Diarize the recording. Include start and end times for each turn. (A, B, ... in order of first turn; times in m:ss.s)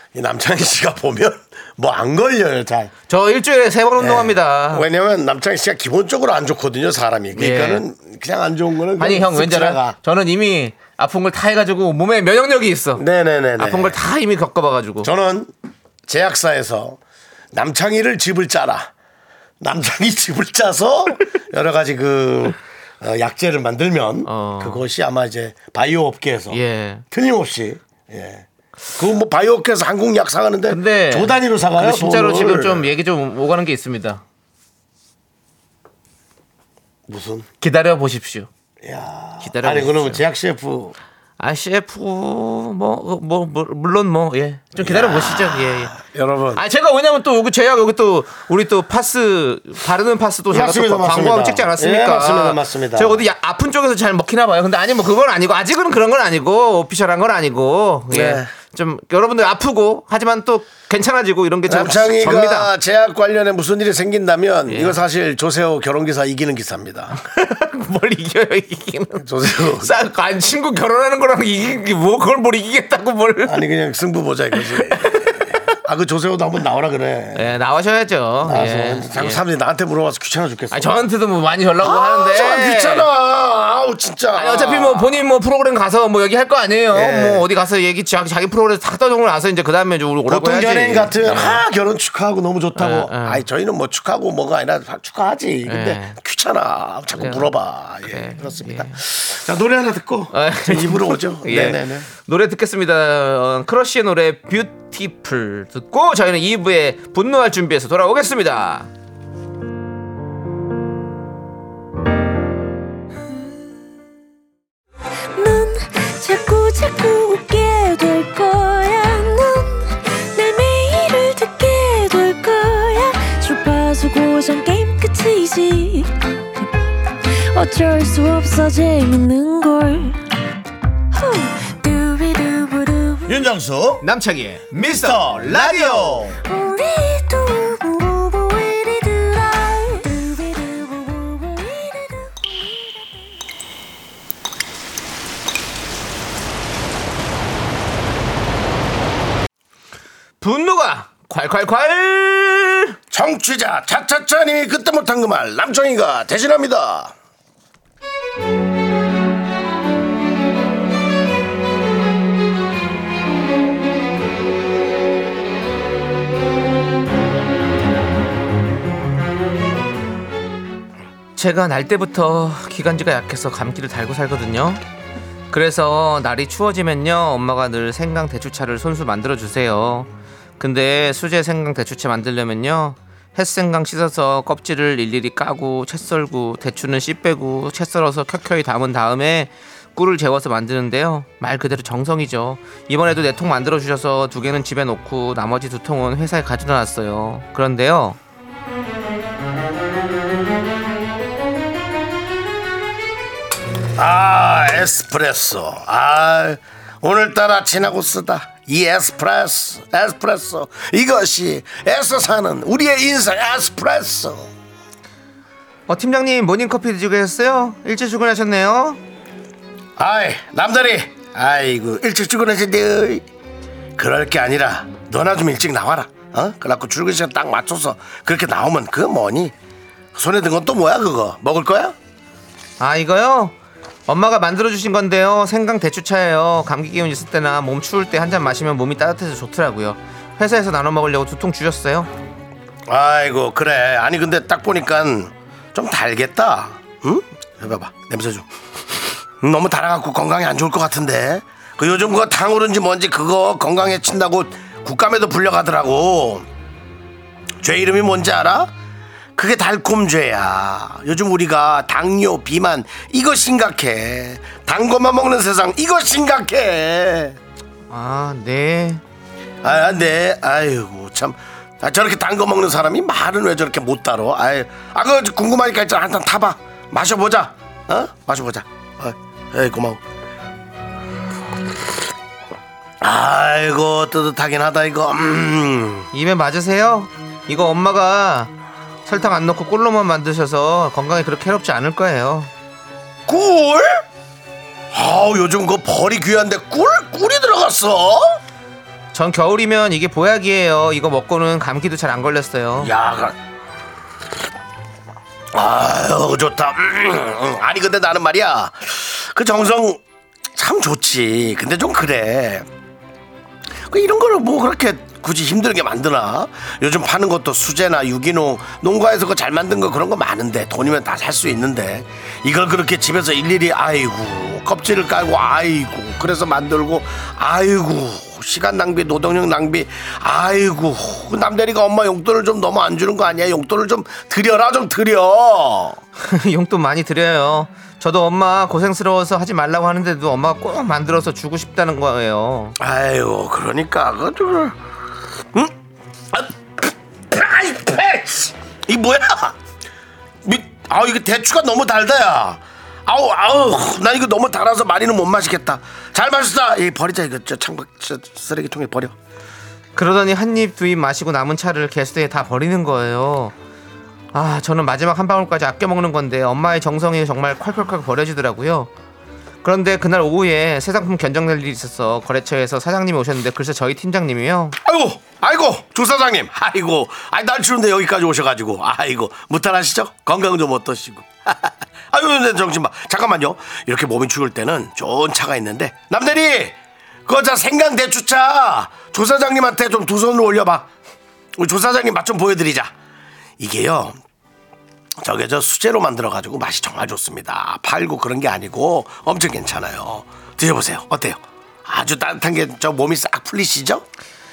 0:00.1-0:02.9 A
0:03.1-0:04.8 B
0:04.0-0:10.0 A
0:07.3-0:07.8 B
0:09.0-0:13.0 B
0:13.0-0:14.0 A
0:13.6-0:15.1 B
0:15.0-0:15.5 A
0:16.0-0:17.0 A
0:17.5-0:18.9 A
0:19.6-0:26.6 A
0:24.2-0:24.8 B
0:26.5-0:27.0 B
0:27.1-0:32.9 A
0:30.7-0:34.2 B
0:37.1-0:37.5 A
0:37.6-0:38.5 B
0:38.8-0:40.9 A
0:39.4-0:40.2 B
0:41.4-0:45.9 B
0:44.8-0:46.6 A
0:46.5-1:02.7 B
0:50.5-0:53.2 A
0:58.1-0:58.5 A
1:01.7-1:07.2 A
1:04.7-1:05.0 B
1:07.1-1:13.6 B
1:09.2-1:09.9 A
1:13.4-1:17.5 A
1:14.6-1:15.4 B
1:17.3-1:19.4 B
1:18.4-1:21.1 A
1:20.7-1:23.1 B
1:21.8-1:25.2 A
1:24.3-1:31.6 B
1:26.9-1:27.4 A
1:30.2-1:42.1 A
1:32.8-1:33.4 B
1:35.6-1:36.2 B
1:37.2-1:37.5 B
1:38.1-1:39.0 B
1:40.3-1:48.9 B
1:55.3-2:06.1 C
2:07.3-2:10.2 C
2:11.1-2:13.4 C
2:13.3-2:14.0 A
2:14.0-2:16.2 B
2:14.8-2:16.4 A
2:16.4-2:23.1 C
2:30.4-2:33.0 B
2:33.1-2:37.1 A
2:51.4-2:54.8 B
2:55.5-3:18.2 B
3:24.0-3:34.5 A
3:35.9-3:39.0 B
3:40.0-3:43.2 A
3:44.0-3:49.5 A
3:50.1-3:51.9 A
3:52.8-3:53.5 B
3:54.1-4:02.1 B
4:02.9-4:08.5 A
4:09.4-4:16.5 A
4:17.6-4:18.7 A
4:19.4-4:27.4 A
4:27.9-4:29.0 B
4:29.6-4:40.0 A
4:43.0-4:46.1 A
4:46.1-4:48.5 B
4:49.0-4:52.5 B
4:53.3-4:54.0 A
4:54.9-4:58.4 A
4:59.1-5:02.9 B
5:02.8-5:03.4 A
5:05.5-5:10.0 A
5:10.5-5:12.7 A
5:13.9-5:36.0 A
5:36.2-5:42.8 B
5:42.8-5:44.8 A
5:46.3-5:49.6 A
5:50.4-5:59.1 A
6:00.0-6:03.5 B
6:04.3-6:08.9 B
6:09.6-6:14.8 B
6:14.8-6:30.9 A
6:31.6-6:32.9 A
6:33.6-6:34.2 A
6:35.2-6:44.0 A